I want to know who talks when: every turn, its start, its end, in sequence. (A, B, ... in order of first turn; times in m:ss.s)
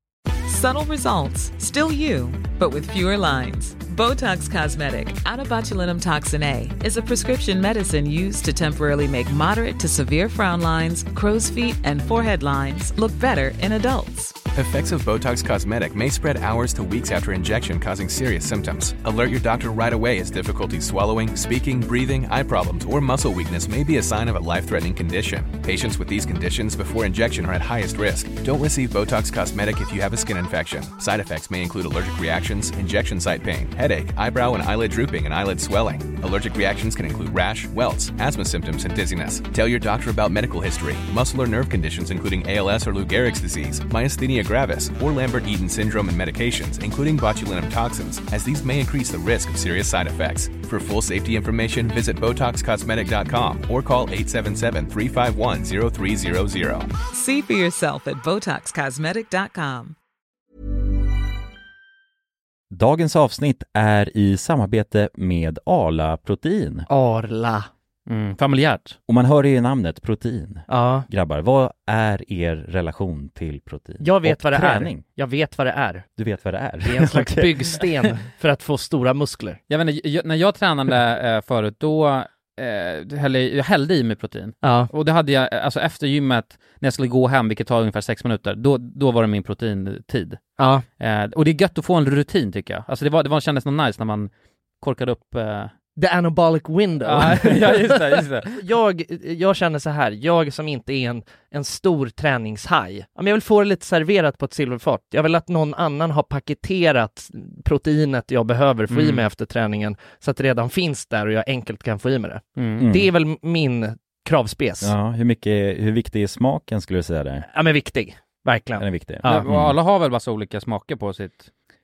0:00.5-0:14.4 A
0:14.6-0:56.9 B
0:57.1-1:00.0 A
1:02.7-1:06.9 C
1:06.9-1:07.7 D
1:08.1-1:09.0 E
1:09.1-1:15.0 C
1:10.7-1:11.1 D
1:14.0-1:16.1 D
1:16.2-1:17.9 C
1:16.8-1:19.6 D
1:19.7-1:30.4 E
1:24.6-1:24.9 D
1:30.6-1:30.8 D
1:31.0-1:35.7 E
1:36.0-1:37.7 D
1:37.0-1:38.6 E
1:38.6-1:54.9 D
1:48.9-1:49.2 E
1:52.6-1:52.9 E
1:52.8-1:53.1 C
1:54.8-1:57.5 C
1:57.5-1:59.5 D
1:58.8-1:59.8 C
1:59.2-2:01.5 E